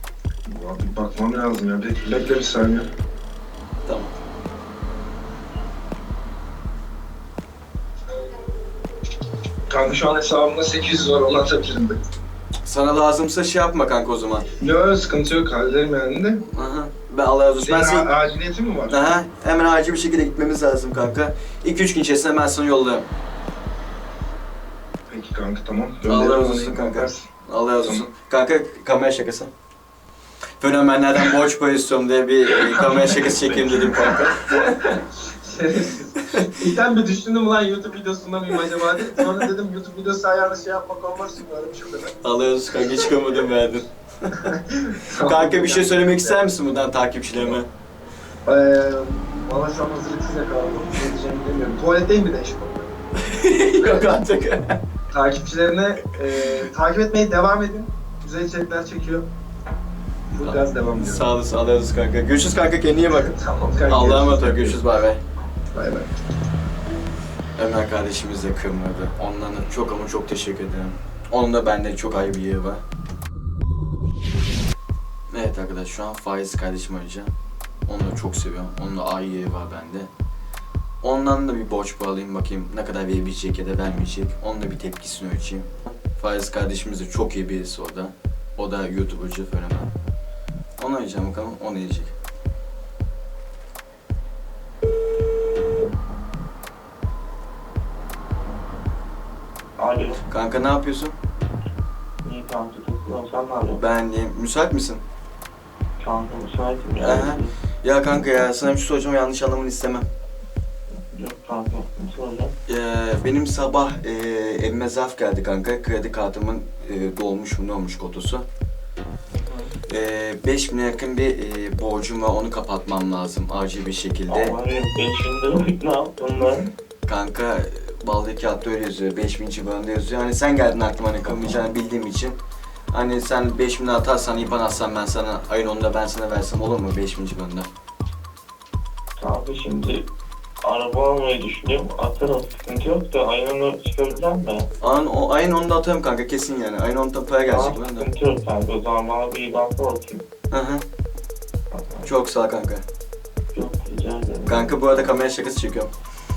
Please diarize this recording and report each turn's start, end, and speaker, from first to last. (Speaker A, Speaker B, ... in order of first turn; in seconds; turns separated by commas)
Speaker A: 0.5-2.9, Speaker B: 3.8-4.1, Speaker A: 9.7-12.0, Speaker B: 12.6-14.4, Speaker A: 14.6-16.4, Speaker B: 16.5-18.1, Speaker A: 17.6-19.0, Speaker B: 18.9-23.1, Speaker A: 25.1-27.3, Speaker B: 26.1-29.5, Speaker B: 30.6-34.6, Speaker A: 32.8-42.1, Speaker B: 42.2-44.5, Speaker A: 44.4-46.4, Speaker B: 45.2-47.7, Speaker A: 48.5-52.9, Speaker B: 53.2-54.8, Speaker A: 55.1-59.2, Speaker A: 60.3-61.2, Speaker B: 60.4-63.3, Speaker A: 63.2-64.9, Speaker B: 63.9-65.2, Speaker A: 65.7-66.1, Speaker B: 67.6-72.8, Speaker B: 75.3-77.3, Speaker B: 77.9-80.1, Speaker B: 81.0-89.9, Speaker B: 90.8-92.1, Speaker C: 99.8-100.2, Speaker B: 100.3-101.1, Speaker C: 102.2-103.8, Speaker B: 103.7-105.0, Speaker C: 106.0-107.5, Speaker B: 107.0-110.0, Speaker C: 111.1-112.5, Speaker B: 112.7-118.5, Speaker C: 119.3-119.7, Speaker B: 119.9-124.5, Speaker C: 124.3-126.7, Speaker B: 127.0-132.4, Speaker C: 131.3-131.5, Speaker B: 132.9-137.7, Speaker C: 139.2-140.0, Speaker C: 140.6-144.7, Speaker B: 144.8-148.1, Speaker C: 147.4-150.2, Speaker B: 150.5-150.8, Speaker C: 151.7-152.1, Speaker B: 152.0-152.8, Speaker C: 153.5-155.1, Speaker B: 154.4-155.9